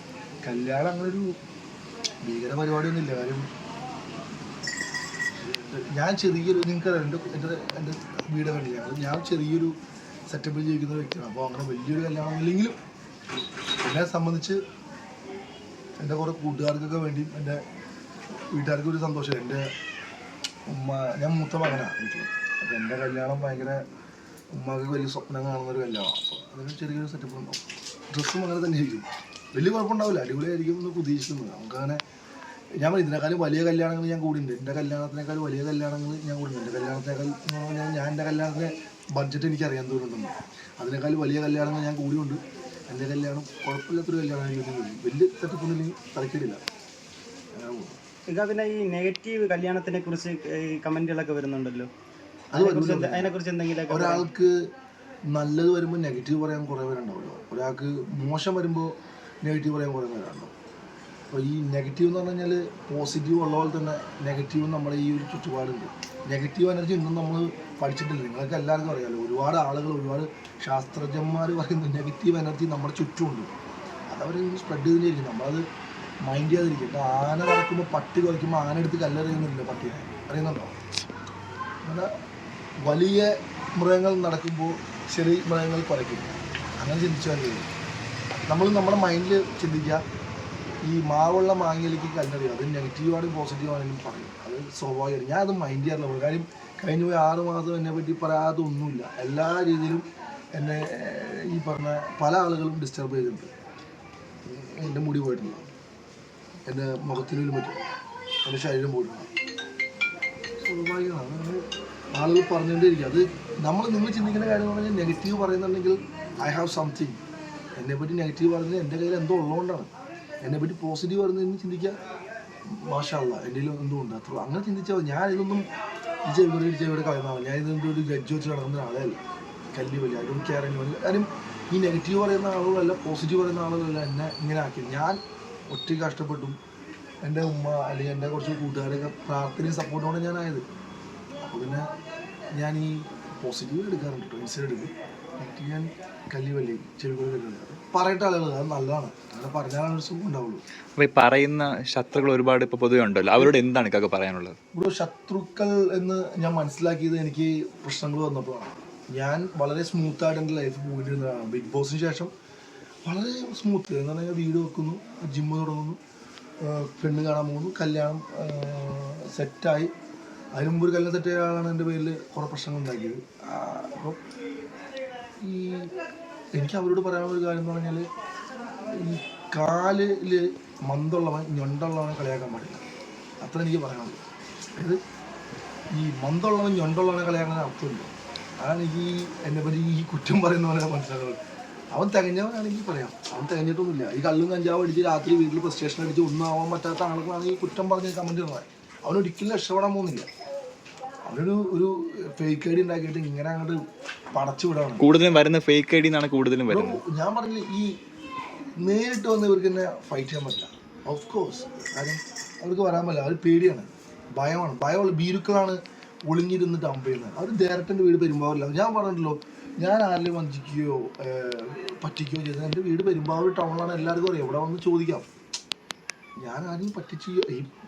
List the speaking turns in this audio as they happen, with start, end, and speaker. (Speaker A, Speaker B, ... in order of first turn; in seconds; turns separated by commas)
Speaker A: 0.4-1.4, Speaker A: 2.2-3.5, Speaker A: 5.3-9.7, Speaker A: 10.3-12.8, Speaker A: 13.8-14.6, Speaker A: 16.0-17.6, Speaker A: 18.5-19.7, Speaker A: 20.7-23.8, Speaker A: 24.5-32.0, Speaker A: 32.8-46.6, Speaker A: 47.5-48.0, Speaker B: 48.3-51.9, Speaker A: 52.5-53.3, Speaker B: 52.5-54.2, Speaker A: 53.9-54.6, Speaker A: 55.3-60.5, Speaker A: 61.3-73.5, Speaker A: 74.1-75.6, Speaker A: 76.2-80.8, Speaker A: 81.8-82.1, Speaker A: 82.8-87.7, Speaker A: 88.5-90.0, Speaker A: 90.8-103.5, Speaker A: 104.4-105.7, Speaker A: 106.7-107.8, Speaker A: 108.4-109.3, Speaker A: 110.6-117.2, Speaker A: 117.8-119.9, Speaker A: 120.4-122.0, Speaker A: 122.6-125.7, Speaker A: 126.2-129.2, Speaker A: 129.7-136.6, Speaker A: 137.2-140.6, Speaker A: 141.4-141.9, Speaker A: 142.6-150.6, Speaker C: 151.0-154.6, Speaker A: 154.7-162.3, Speaker A: 163.0-166.0, Speaker A: 166.6-169.9, Speaker A: 170.5-174.2, Speaker A: 175.4-175.9, Speaker A: 176.5-178.1, Speaker A: 178.9-182.8, Speaker A: 183.4-184.2, Speaker A: 184.8-185.0, Speaker A: 185.9-191.4, Speaker A: 191.9-200.3, Speaker A: 201.2-203.8, Speaker A: 204.3-205.0, Speaker C: 205.0-207.0, Speaker A: 206.7-207.9, Speaker A: 208.8-225.3, Speaker A: 226.4-227.7